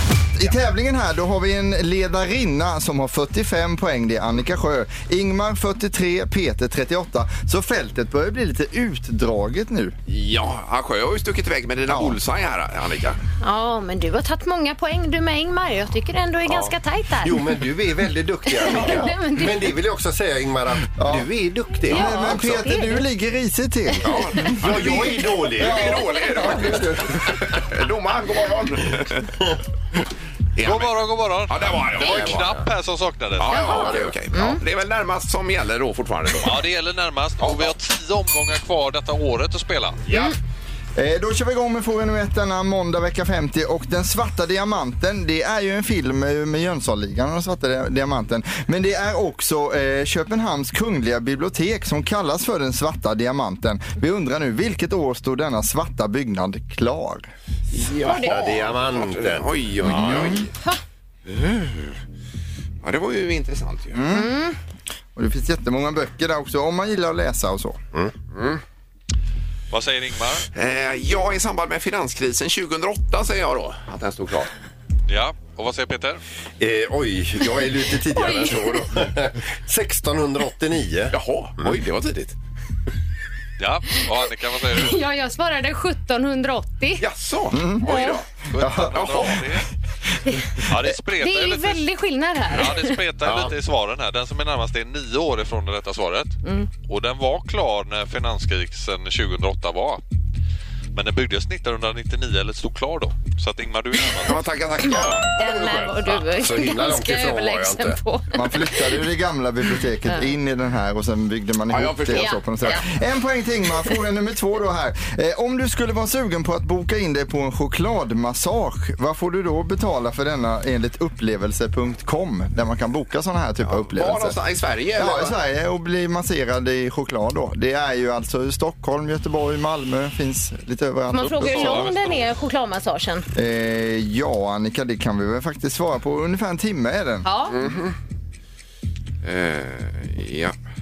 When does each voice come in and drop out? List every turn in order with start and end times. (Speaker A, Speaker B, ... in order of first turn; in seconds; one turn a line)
Speaker A: 0.3-9.9
Speaker B: 10.1-13.2
Speaker A: 11.9-12.2
Speaker C: 13.4-17.6
Speaker D: 16.5-22.6
Speaker C: 18.4-19.7
Speaker A: 21.0-21.3
Speaker A: 21.9-24.9
Speaker C: 21.9-23.0
Speaker B: 24.0-29.3
Speaker C: 24.4-25.2
Speaker D: 24.6-26.0
Speaker A: 25.6-27.3
Speaker B: 30.6-31.0
Speaker E: 30.6-34.0
Speaker B: 31.5-32.4
Speaker D: 32.0-32.7
Speaker B: 33.4-36.6
Speaker C: 33.5-34.6
Speaker D: 33.6-34.1
Speaker E: 36.4-40.0
Speaker B: 37.4-37.7
Speaker C: 40.1-40.4
Speaker A: 41.0-57.3
Speaker B: 57.7-60.5
Speaker D: 57.8-60.4
Speaker C: 58.0-58.4
Speaker A: 59.8-60.4
Speaker B: 61.3-62.0
Speaker B: 62.8-64.0
Speaker A: 63.9-64.3
Speaker C: 64.1-64.6
Speaker A: 65.1-67.8
Speaker B: 68.3-68.6
Speaker E: 69.7-70.5
Speaker B: 70.5-74.5
Speaker E: 75.1-76.2
Speaker D: 76.6-81.8
Speaker C: 78.1-78.8
Speaker B: 81.1-82.3
Speaker E: 83.6-85.0
Speaker C: 84.7-87.0
Speaker B: 87.0-88.3
Speaker A: 87.5-87.9
Speaker C: 87.8-88.2
Speaker E: 88.5-89.7
Speaker A: 88.6-89.3
Speaker B: 88.9-89.4
Speaker E: 90.6-91.8
Speaker C: 91.2-93.0
Speaker E: 92.5-100.0
Speaker D: 93.2-93.5
Speaker E: 100.9-104.4
Speaker B: 104.2-106.2
Speaker C: 104.9-109.0
Speaker D: 106.2-108.0
Speaker A: 108.3-124.4
Speaker B: 111.7-112.8
Speaker C: 112.1-112.8
Speaker B: 123.6-125.3
Speaker A: 125.0-131.9
Speaker C: 131.1-133.2
Speaker A: 133.3-137.3
Speaker C: 137.2-137.6
Speaker B: 137.5-137.9
Speaker B: 139.2-140.6